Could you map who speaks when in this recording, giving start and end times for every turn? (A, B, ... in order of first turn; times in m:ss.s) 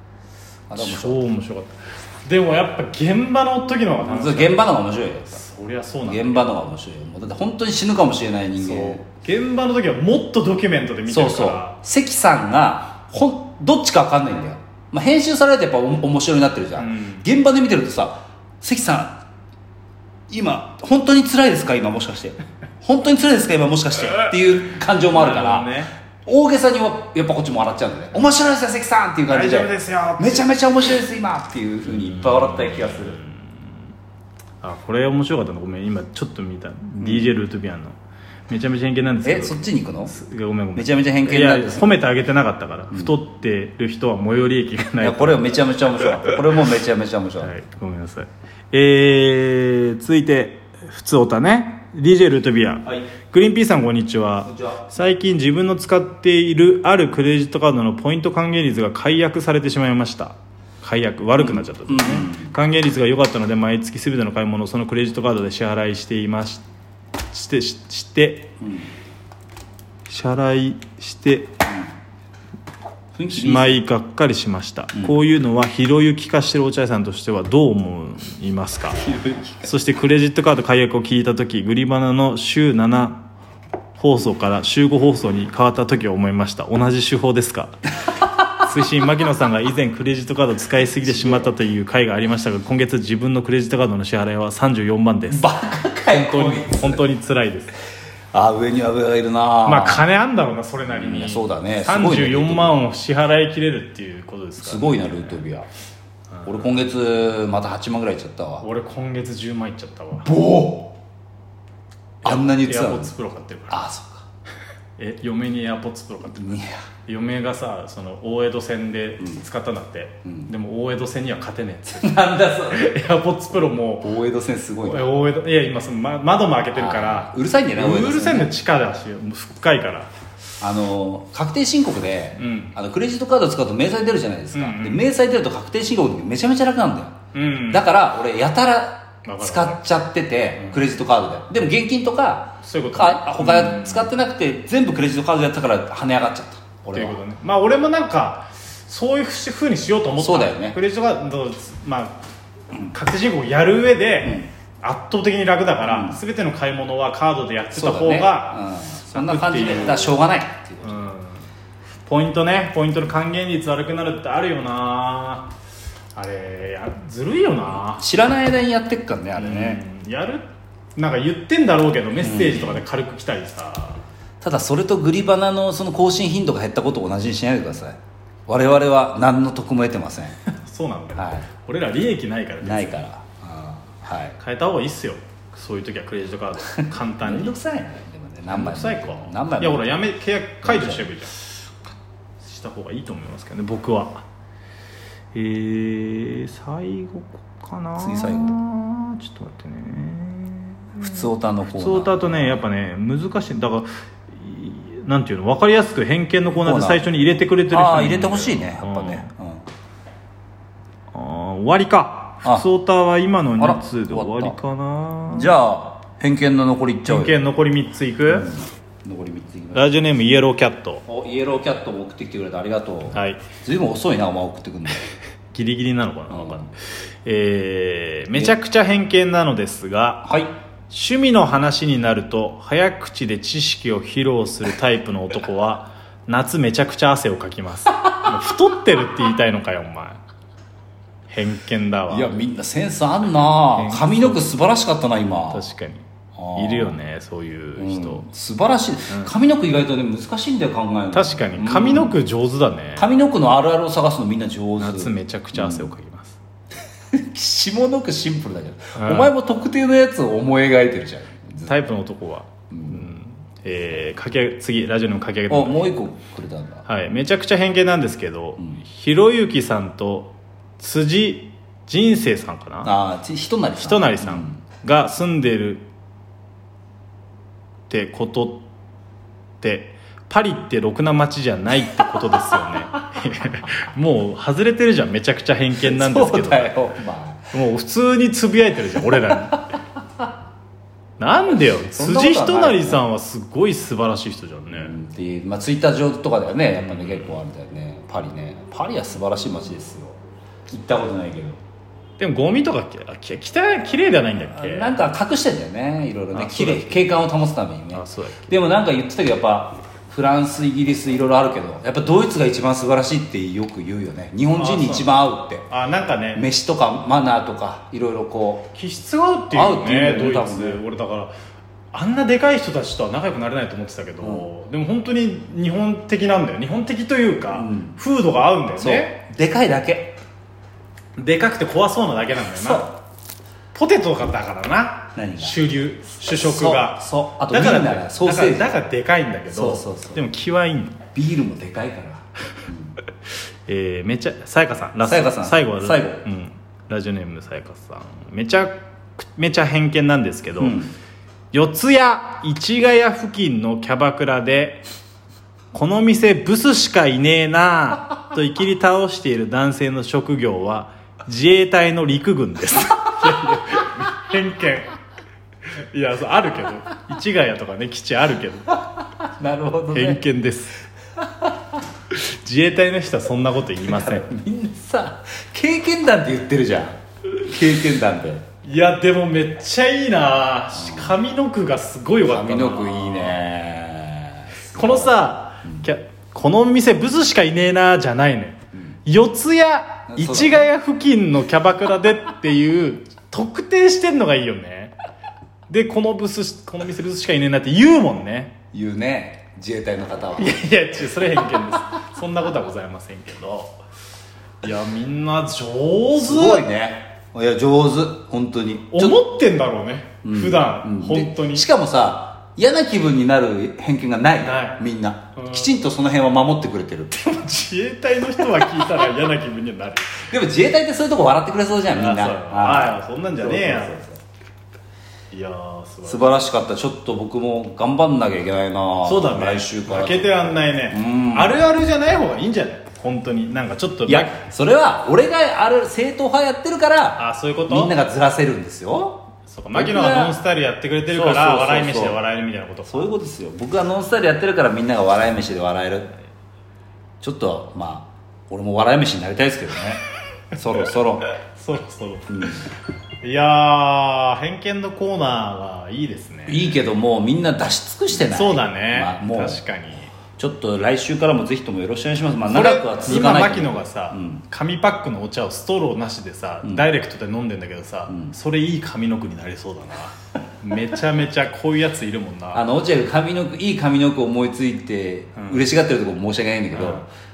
0:00.7-0:01.2 A
0:00.8-0:06.5 B
0:04.0-0:05.4 A
0:06.0-0:09.0 A
0:08.6-0:11.8 B
0:11.1-0:19.2 A
0:16.8-0:17.3 B
0:20.3-0:25.7 A
0:25.1-0:25.9 B
0:26.2-0:33.2 A
0:29.3-0:30.5 B
0:31.9-0:33.7 B
0:34.6-0:38.0 B
0:37.0-0:37.3 A
0:38.5-0:46.3 B
0:39.2-0:40.1 A
0:40.8-0:41.9 A
0:45.0-0:47.5 A
0:47.4-1:06.6 B
0:54.4-0:54.8 A
1:01.4-1:02.5 A
1:07.3-1:08.5 B
1:08.6-1:08.9 A
1:10.1-1:11.6 B
1:11.6-1:11.9 A
1:13.1-1:13.8 A
1:13.3-1:19.1 B
1:19.0-1:19.7 A
1:19.6-1:23.2 B
1:24.0-1:27.8 B
1:28.5-1:35.5 B
1:30.9-1:31.5 A
1:35.3-1:37.0 A
1:36.1-1:37.7 B
1:38.3-1:40.0 A
1:39.6-1:45.4 B
1:40.8-1:42.8 A
1:44.6-1:45.7 A
1:46.4-1:46.7 B
1:46.4-1:48.6 A
1:48.6-1:50.3 B
1:50.2-1:50.9 A
1:52.2-1:53.8 B
1:52.2-1:53.1 A
1:53.7-1:54.2 A
1:55.0-2:04.1 B
1:56.3-1:56.8 A
2:00.2-2:00.5 A
2:01.9-2:03.0 A
2:04.0-2:05.1 A
2:04.8-2:10.1 B
2:06.7-2:08.5 A
2:10.6-2:17.2 A
2:12.4-2:12.8 B
2:14.5-2:15.0 B
2:17.3-2:17.8 B
2:17.7-2:27.2 A
2:19.2-2:19.8 B
2:20.6-2:20.9 B
2:22.6-2:24.1 B
2:26.9-2:32.2 B
2:30.2-2:30.8 A
2:32.9-2:40.2 B
2:34.2-2:34.5 A
2:35.8-2:36.2 A
2:37.7-2:41.1 A
2:40.8-2:41.5 B
2:42.1-2:45.5 B
2:46.1-2:48.0 B
2:47.9-2:49.8 A
2:49.4-2:54.0 B
2:52.2-2:52.8 A
2:54.4-3:00.4 A
3:00.5-3:03.0 B
3:01.1-3:01.5 A
3:02.6-3:04.4 A
3:04.4-3:07.6 B
3:06.7-3:09.9 A
3:08.5-3:11.5 B
3:10.6-3:11.1 A
3:12.4-3:14.2 B
3:15.3-3:29.3 B
3:18.0-3:18.6 A
3:21.0-3:22.6 A
3:26.6-3:27.0 A
3:27.7-3:29.6 A
3:31.1-3:35.5 B
3:33.6-3:34.6 A
3:35.3-3:37.4 A
3:37.0-3:38.5 B
3:38.3-3:39.9 A
3:39.7-3:41.0 B
3:41.1-3:45.0 A
3:43.1-3:43.4 B
3:45.5-3:46.7 B
3:46.3-3:46.7 A
3:47.2-3:50.3 B
3:50.2-3:50.5 A
3:50.9-4:00.2 B
4:01.3-4:02.3 B
4:02.1-4:05.6 A
4:03.7-4:04.5 B
4:05.5-4:08.2 B
4:06.4-4:07.0 A
4:07.8-4:12.2 A
4:11.1-4:13.1 B
4:13.0-4:15.9 A
4:14.8-4:16.4 B
4:17.1-4:21.8 A
4:19.0-4:19.3 B
4:21.7-4:25.9 B
4:22.7-4:23.1 A
4:25.5-4:26.8 A
4:26.9-4:32.9 B
4:32.8-4:34.6 A
4:33.8-4:35.9 B
4:37.9-4:38.6 B
4:39.6-4:46.7 B
4:45.8-4:47.5 A
4:47.5-4:49.7 B
4:51.2-4:54.9 B
4:52.0-4:53.0 A
4:54.7-5:00.2 A
4:56.8-4:57.4 B
5:00.7-5:01.6 A
5:02.2-5:05.0 B
5:04.4-5:15.6 A
5:06.3-5:07.1 B
5:07.9-5:08.5 B
5:14.5-5:15.1 B
5:15.6-5:16.4 B
5:16.3-5:18.7 A
5:18.7-5:21.3 B
5:19.5-5:20.8 A
5:21.9-5:29.2 B
5:24.2-5:24.5 A
5:27.5-5:28.0 A
5:28.8-5:30.2 A
5:31.2-5:32.9 B
5:32.5-5:32.9 A
5:33.7-5:41.0 B
5:35.1-5:35.6 A
5:36.3-5:38.7 A
5:39.5-5:40.2 A
5:41.1-5:43.0 A
5:43.7-5:50.8 B
5:45.0-5:46.2 A
5:50.6-5:50.9 A
5:51.5-5:54.8 B
5:55.7-6:04.9 B
6:05.9-6:08.8 B
6:09.1-6:10.2 A
6:09.9-6:10.8 B
6:11.2-6:11.5 A
6:12.1-6:14.3 B
6:13.8-6:18.4 A
6:18.6-6:23.4 B
6:20.7-6:21.2 A
6:22.2-6:25.9 A
6:24.7-6:34.9 B
6:30.1-6:30.7 A
6:35.7-6:38.5 B
6:38.7-6:40.6 A
6:40.4-6:43.7 B
6:44.6-6:46.6 B
6:46.2-6:49.2 A
6:48.9-6:51.7 B
6:50.2-6:57.2 A
6:54.4-6:54.8 B
6:55.3-6:55.7 B
6:57.1-7:00.2 B
7:00.2-7:04.2 A
7:01.9-7:04.0 B
7:05.3-7:06.4 B
7:06.0-7:11.6 A
7:09.0-7:14.4 B
7:14.1-7:20.4 A
7:17.2-7:17.9 B
7:19.5-7:23.1 B
7:21.1-7:22.2 A
7:22.9-7:26.1 A
7:27.2-7:31.3 A
7:31.5-7:32.3 B
7:32.3-7:32.6 A
7:33.2-7:36.8 B
7:36.5-7:39.6 A
7:38.1-7:40.1 B
7:40.4-7:44.4 A
7:42.5-7:52.6 B
7:52.5-7:57.1 A
7:55.4-7:55.7 B
7:56.7-7:57.0 B